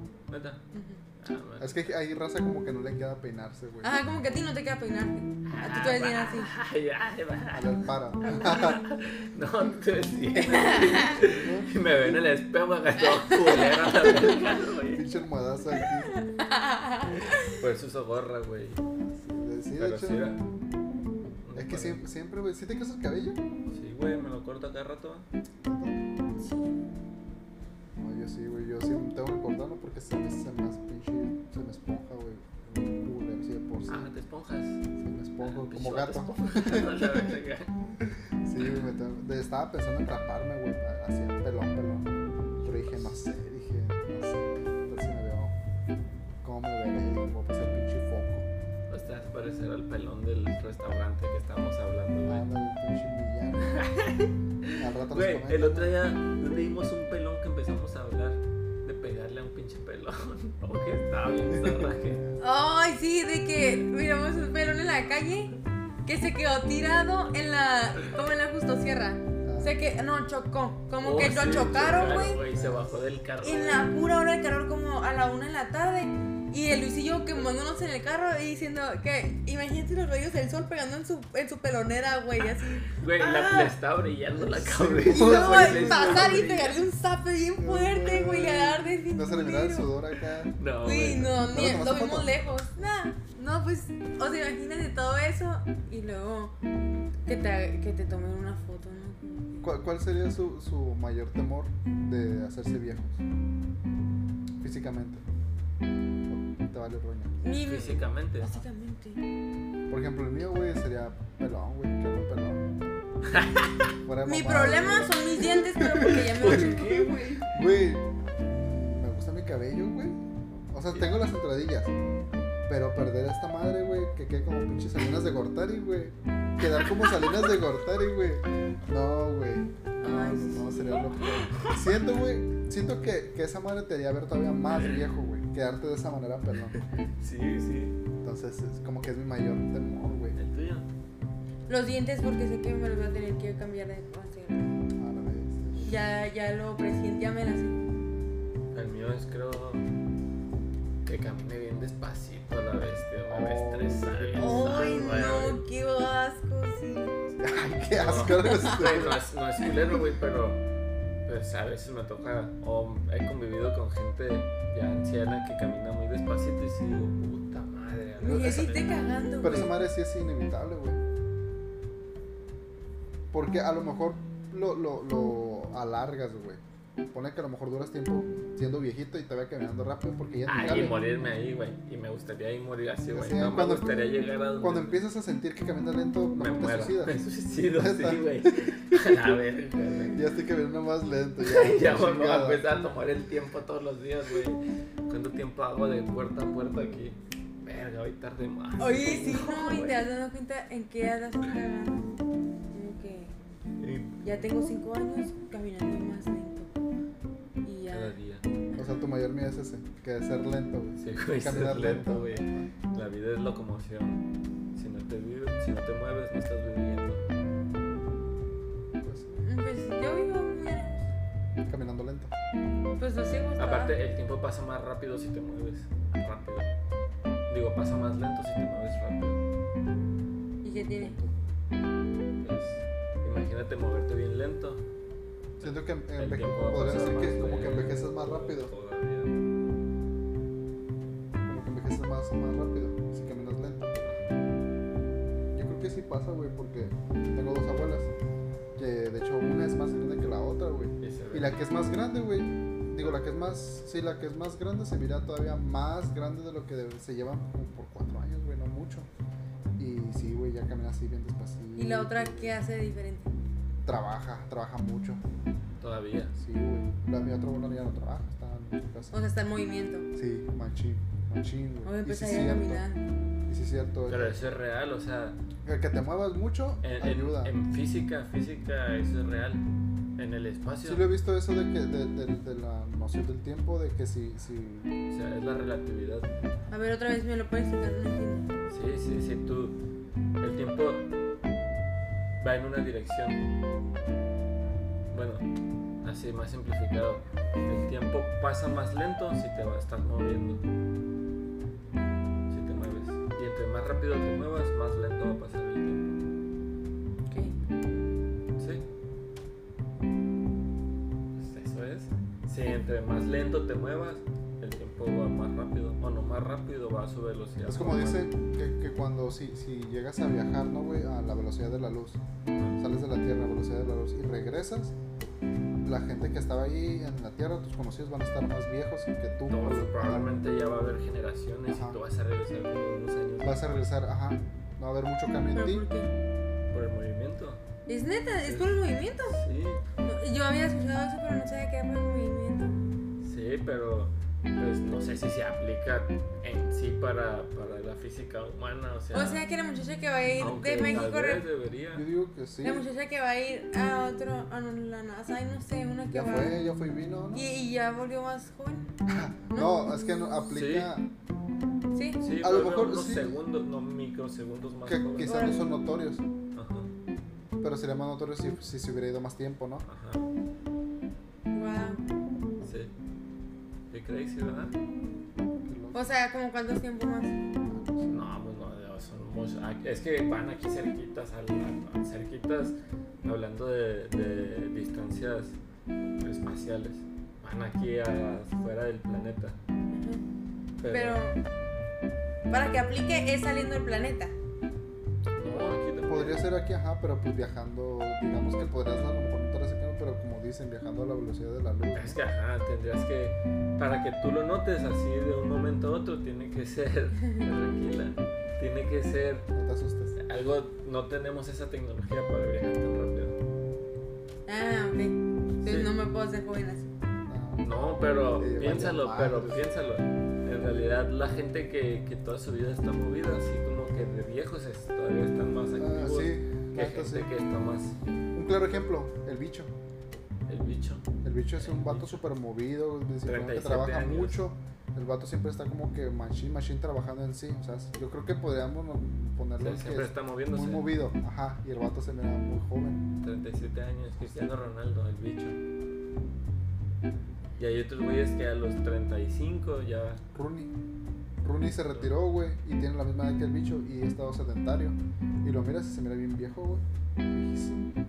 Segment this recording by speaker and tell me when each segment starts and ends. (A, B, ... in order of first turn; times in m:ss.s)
0:00.3-0:00.6 A
0:00.7-0:01.0 B
0:01.2-0:01.9 A
0:01.6-0:03.9 C
0:03.8-0:06.5 B
0:05.4-0:15.0 A
0:07.5-0:08.8 C
0:10.4-0:11.1 B
0:11.2-0:11.7 C
0:13.0-0:14.0 B
0:14.0-0:14.4 C
0:14.9-0:16.1 C
0:16.1-0:17.6 B
0:17.5-0:18.8 A
0:19.0-0:20.2 C
0:19.8-0:20.4 A
0:21.4-0:22.0 A
0:21.5-0:23.4 C
0:23.7-0:25.3 A
0:25.6-0:26.0 C
0:26.4-0:26.7 B
0:28.0-0:34.1 C
0:33.9-0:34.8 A
0:35.0-0:37.3 C
0:35.4-0:37.7 A
0:38.0-0:45.5 C
0:42.8-0:43.1 A
0:46.4-0:48.5 C
0:48.9-0:52.5 A
0:52.2-0:53.8 C
0:53.6-1:02.2 A
0:54.8-0:55.9 C
1:02.4-1:05.5 B
1:06.0-1:12.4 B
1:09.4-1:09.7 C
1:11.0-1:13.9 A
1:12.4-1:12.9 C
1:13.4-1:23.7 B
1:22.8-1:26.8 A
1:24.4-1:26.5 C
1:25.1-1:29.9 B
1:27.6-1:30.5 C
1:30.6-1:31.4 A
1:30.8-1:36.5 B
1:31.5-1:32.5 C
1:37.2-1:39.8 B
1:39.6-1:43.2 C
1:44.6-1:45.2 C
1:46.3-1:47.4 C
1:47.4-1:49.2 B
1:47.6-1:48.5 A
1:49.9-1:52.6 C
1:53.2-1:53.8 A
1:54.0-2:00.2 C
1:54.2-1:57.4 B
1:56.3-1:57.5 A
2:00.7-2:01.9 C
2:02.7-2:16.8 C
2:10.0-2:11.3 B
2:11.2-2:11.8 A
2:14.7-2:15.0 A
2:16.7-2:18.0 A
2:18.2-2:20.4 C
2:20.4-2:20.9 A
2:21.7-2:24.7 B
2:25.0-2:26.0 C
2:25.8-2:27.8 B
2:28.7-2:29.8 A
2:31.0-2:35.6 A
2:33.3-2:35.1 C
2:34.4-2:37.2 B
2:37.4-2:39.2 C
2:37.9-2:40.6 A
2:38.2-2:39.1 B
2:41.2-2:49.0 A
2:48.2-2:49.8 B
2:48.2-2:48.6 C
2:49.4-2:51.0 C
2:53.3-3:01.0 C
3:00.5-3:05.0 A
3:03.1-3:04.0 C
3:04.6-3:07.2 C
3:06.4-3:10.2 A
3:07.8-3:09.0 C
3:10.1-3:12.6 C
3:11.4-3:20.0 A
3:18.8-3:22.1 B
3:22.7-3:23.3 B
3:23.8-3:24.3 A
3:24.2-3:26.7 B
3:27.6-3:29.0 B
3:27.9-3:28.4 A
3:28.8-3:32.7 C
3:31.0-3:34.2 A
3:34.7-3:37.2 A
3:39.0-3:39.3 C
3:39.3-3:41.1 B
3:41.6-3:42.3 C
3:43.0-3:43.9 B
3:43.6-3:46.7 A
3:47.5-3:49.4 A
3:50.6-3:51.2 B
3:50.7-3:51.3 C
3:52.4-3:54.8 A
3:55.6-3:58.7 C
3:55.6-3:59.4 A
4:01.4-4:04.0 C
4:04.0-4:04.4 A
4:05.5-4:08.1 C
4:08.8-4:19.1 C
4:11.0-4:11.6 A
4:19.8-4:22.5 C
4:21.8-4:23.3 B
4:23.8-4:25.2 C
4:25.8-4:26.3 A
4:26.4-4:29.1 C
4:29.1-4:30.0 B
4:30.2-4:32.8 C
4:31.8-4:33.0 B
4:33.5-4:34.4 C
4:34.1-4:35.4 A
4:35.6-4:37.5 C
4:36.8-4:39.6 A
4:40.2-4:41.0 A
4:40.8-4:44.9 C
4:45.1-4:46.3 A
4:46.7-4:48.5 B
4:48.7-4:49.8 A
4:50.4-4:51.1 A
4:52.4-4:53.4 A
4:55.1-4:55.5 A
4:56.0-5:00.6 A
5:02.5-5:06.2 A
5:07.3-5:07.6 B
5:08.6-5:08.8 A
5:11.4-5:18.3 A
5:17.6-5:22.2 C
5:22.8-5:24.9 C
5:25.8-5:30.3 C
5:29.5-5:33.8 A
5:31.7-5:32.0 C
5:33.4-5:35.8 C
5:35.6-5:36.1 B
5:36.7-5:37.6 A
5:37.9-5:39.4 B
5:38.4-5:39.8 A
5:40.0-5:42.8 B
5:43.2-5:49.4 A
5:49.1-5:51.4 B
5:50.4-5:52.0 A
5:51.9-5:52.8 C
5:52.6-5:56.6 B
5:56.1-5:57.4 C
5:57.3-5:58.9 B
5:59.1-6:01.1 C
5:59.5-5:59.8 B
6:00.5-6:00.9 A
6:01.9-6:02.2 B
6:02.2-6:05.4 A
6:02.4-6:03.3 C
6:04.8-6:06.2 C
6:05.2-6:05.6 B
6:06.5-6:06.9 A
6:07.6-6:09.8 C
6:09.8-6:10.2 A
6:11.5-6:12.0 B
6:12.6-6:12.9 A
6:13.9-6:14.7 A
6:15.6-6:16.1 C
6:15.9-6:17.4 B
6:17.6-6:18.1 C
6:18.1-6:25.6 A
6:26.2-6:29.6 A
6:29.9-6:30.2 B
6:30.8-6:31.2 A
6:30.9-6:31.4 B
6:32.5-6:34.3 B
6:35.4-6:36.4 A
6:36.1-6:42.2 C
6:41.9-6:49.5 A
6:49.5-6:50.2 C
6:50.2-6:53.4 A
6:54.5-6:56.9 B
6:55.6-6:55.9 A
6:57.3-6:57.7 C
6:57.6-7:08.0 A
6:58.4-6:59.6 C
7:05.8-7:07.3 C
7:08.3-7:09.7 C
7:10.5-7:11.0 A
7:11.2-7:23.0 C
7:11.6-7:12.2 A
7:13.2-7:14.4 A
7:19.6-7:20.9 A
7:23.2-7:25.6 A
7:27.6-7:30.2 A
7:30.3-7:30.7 C
7:31.4-7:37.9 C